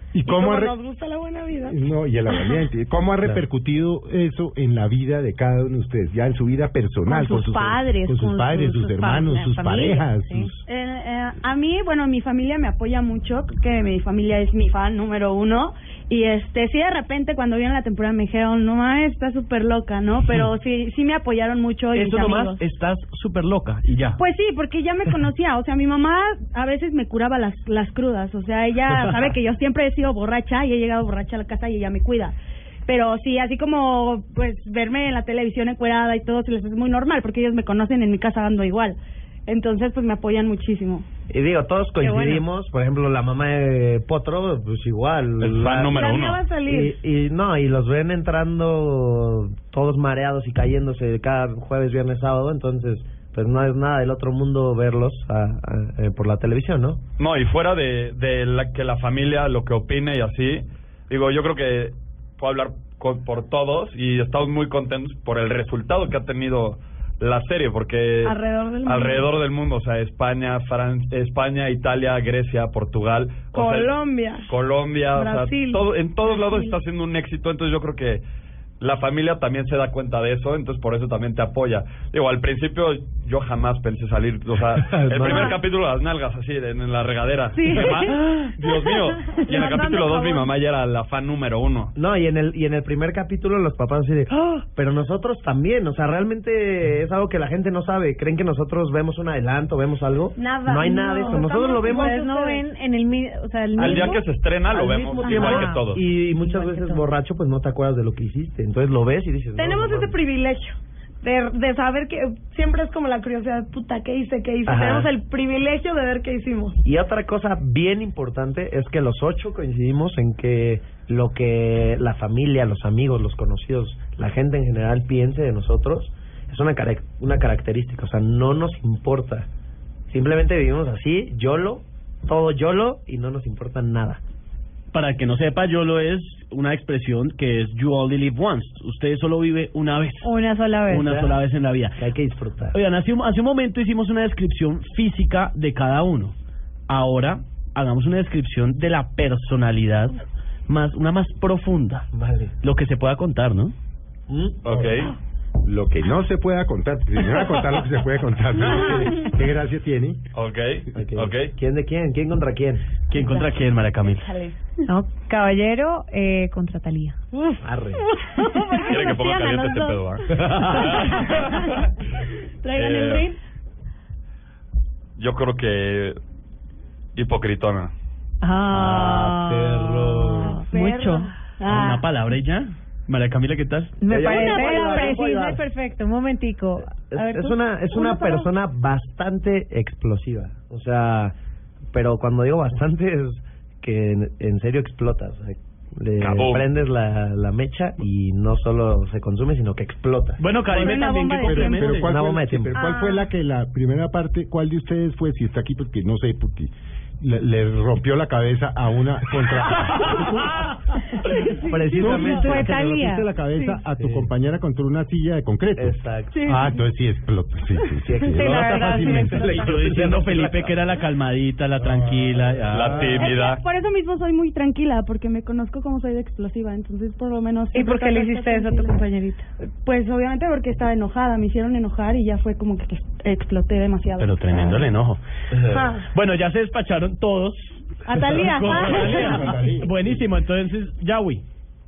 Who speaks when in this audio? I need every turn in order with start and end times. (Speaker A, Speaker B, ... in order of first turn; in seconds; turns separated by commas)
Speaker A: 0.1-0.7, Speaker B: 0.2-1.8, Speaker A: 1.7-10.6, Speaker C: 7.1-10.5, Speaker D: 10.7-22.6, Speaker E: 21.9-24.2, Speaker D: 24.1-32.3, Speaker D: 32.9-41.0, Speaker F: 41.3-46.0, Speaker C: 42.0-42.4, Speaker G: 45.4-46.5, Speaker B: 45.9-47.0, Speaker F: 46.6-57.0, Speaker G: 57.2-73.9, Speaker B: 68.2-69.3, Speaker B: 73.5-74.5, Speaker G: 74.5-78.2, Speaker B: 75.1-75.8, Speaker G: 78.8-91.9, Speaker F: 84.8-85.6, Speaker D: 87.6-88.0, Speaker B: 89.5-90.4, Speaker F: 91.9-102.2, Speaker B: 100.3-102.6, Speaker C: 101.3-104.2, Speaker G: 103.8-106.0, Speaker F: 103.8-110.1, Speaker C: 105.2-107.0, Speaker B: 109.5-116.8, Speaker F: 114.6-115.1, Speaker F: 116.8-129.5, Speaker F: 130.1-134.2, Speaker E: 134.9-140.3, Speaker C: 140.2-141.1, Speaker E: 140.9-142.0, Speaker F: 141.0-141.4, Speaker F: 141.9-142.8, Speaker E: 142.7-146.3, Speaker E: 146.9-150.2, Speaker E: 150.7-152.1, Speaker F: 152.1-152.5, Speaker E: 152.6-153.7, Speaker F: 154.3-154.6, Speaker G: 154.6-155.1, Speaker A: 155.6-160.2, Speaker G: 160.3-161.5, Speaker F: 160.9-162.9, Speaker E: 163.1-164.3, Speaker C: 164.9-167.2, Speaker F: 167.6-168.0, Speaker D: 168.7-169.9, Speaker G: 168.8-171.8, Speaker F: 170.4-170.8, Speaker D: 172.6-173.4, Speaker G: 172.7-173.3, Speaker G: 175.2-176.2, Speaker G: 177.2-177.9, Speaker C: 178.4-181.3, Speaker F: 178.7-180.6, Speaker D: 180.6-182.0, Speaker B: 180.7-181.3, Speaker E: 181.7-184.0, Speaker C: 184.0-188.4, Speaker F: 184.1-185.6, Speaker B: 184.3-184.8, Speaker D: 184.5-185.1, Speaker F: 187.1-191.3, Speaker F: 191.9-200.5, Speaker G: 196.2-196.7, Speaker E: 200.4-202.1, Speaker D: 200.6-202.0, Speaker A: 201.3-210.4, Speaker F: 201.9-202.8, Speaker D: 211.4-212.3, Speaker F: 211.6-212.7, Speaker A: 211.9-220.1, Speaker C: 211.9-213.3, Speaker F: 214.0-214.3, Speaker F: 215.8-216.4, Speaker D: 216.3-216.8, Speaker F: 218.0-220.8, Speaker C: 218.3-219.7, Speaker E: 219.3-223.1, Speaker F: 222.5-223.2, Speaker G: 222.7-223.6, Speaker D: 223.1-229.0, Speaker C: 227.7-229.4, Speaker D: 229.6-234.8, Speaker E: 234.2-235.2, Speaker B: 235.7-236.1, Speaker E: 236.1-241.4, Speaker D: 238.1-239.5, Speaker A: 238.7-240.0